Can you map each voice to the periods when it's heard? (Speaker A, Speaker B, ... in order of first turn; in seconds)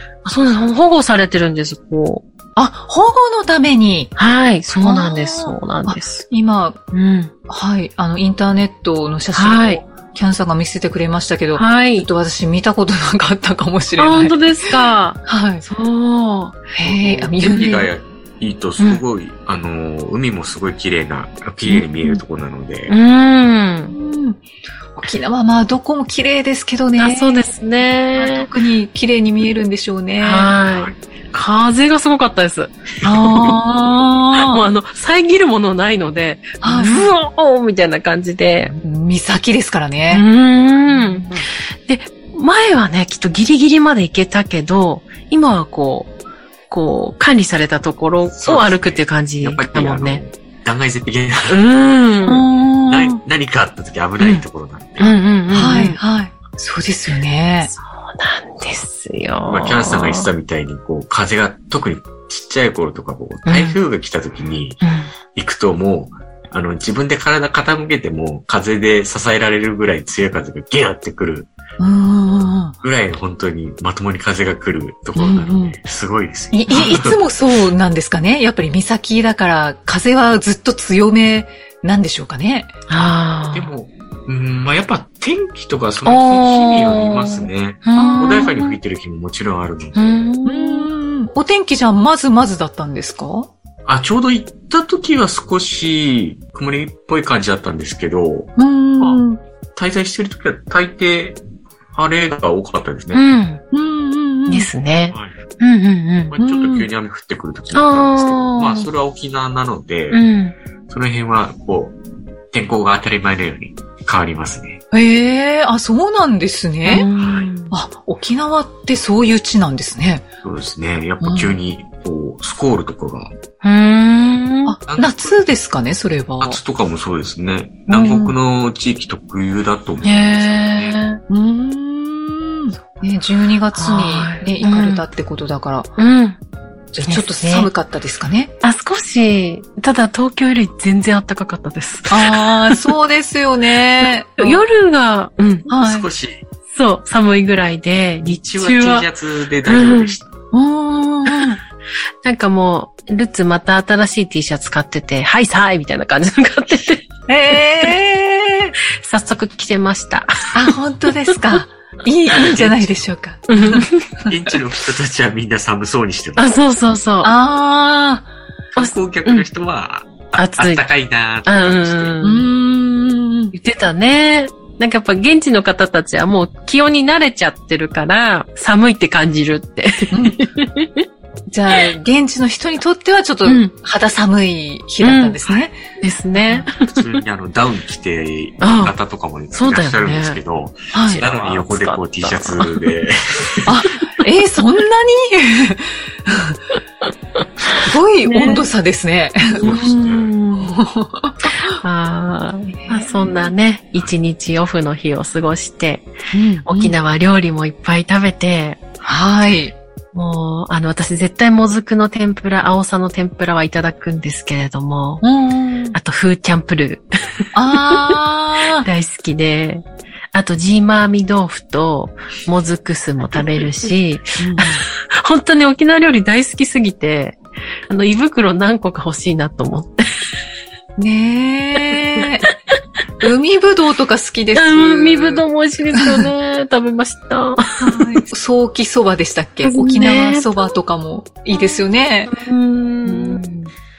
Speaker A: 0.2-2.2, 4.2-6.3, 6.9-7.3, 9.3-9.8, 11.6-12.1, 14.0-16.7, 22.9-23.9, 27.0-28.5, 30.2-33.6, 34.4-38.7, 40.1-41.3, 41.9-46.1, 46.7-50.2, 51.5-52.5, 55.0-56.0, 57.8-60.3, 63.5-63.8, 64.8-65.1, 82.9-83.7, 86.1-88.8, 90.0-90.9, 103.1-103.6, 104.5-106.3, 107.7-108.9, 110.1-110.6, 116.9-117.8, 123.6-124.8, 127.9-128.3, 130.0-131.2, 133.7-135.0, 136.0-136.4, 137.1-137.7, 138.6-142.8, 144.4-145.7, 146.7-149.1, 149.7-150.2, 152.2-157.1, 157.6-157.9, 159.0-160.7, 163.5-164.1, 166.4-167.3, 168.8-169.5, 170.3-170.8, 171.4-172.5, 173.5-181.1, 183.5-183.7, 185.0-185.4, 186.0-187.2, 188.6-188.9, 189.5-190.4, 190.9-192.8, 198.3-198.6, 199.6-200.7, 201.6-206.1, 206.7-208.8, 210.1-215.2, 215.9-217.1, 218.8-230.1, 234.5-238.2, 239.6-240.6, 242.3-243.7
Speaker B: 2.6-4.1, 4.7-6.8, 7.5-14.5, 15.3-15.6, 16.7-17.9, 21.8-22.2, 23.9-24.4, 25.0-27.4, 28.2-30.5, 33.0-34.6, 36.6-37.1, 38.8-40.2, 40.9-41.3, 52.3-53.2, 55.5-57.7, 71.8-72.8, 75.2-75.8, 76.5-82.7, 88.0-88.4, 90.5-93.5, 98.6-99.4, 103.7-104.7, 106.4-106.9, 114.9-117.1, 117.7-120.2, 121.2-121.6, 124.7-126.6, 131.3-135.9, 136.9-138.5, 142.1-144.6, 145.7-146.1, 150.5-151.6, 157.3-158.7, 160.5-163.9, 167.2-168.3, 172.2-173.5, 180.1-180.4, 181.5-185.8, 186.4-186.7, 190.9-191.2, 193.7-196.6, 197.8-201.7, 202.8-203.3, 206.3-207.0, 209.0-209.8, 215.2-216.0, 217.6-218.9, 224.4-224.8, 231.0-232.5, 233.2-235.4, 236.0-236.3, 237.8-242.3, 243.1-243.4
Speaker C: 16.8-22.9, 30.7-31.0, 48.4-51.6, 52.9-55.1, 59.4-64.8, 65.3-71.5, 72.8-77.2, 83.5-90.2, 93.9-99.2, 99.8-101.4, 101.9-103.2, 105.1-105.4, 106.3-110.2, 110.9-112.0, 112.5-114.8, 117.2-117.5, 120.4-123.3, 124.9-125.4, 126.4-131.0, 145.8-146.4, 148.2-150.3, 162.3-162.9, 164.2-166.5, 168.8-172.2, 186.9-193.7, 199.6-200.3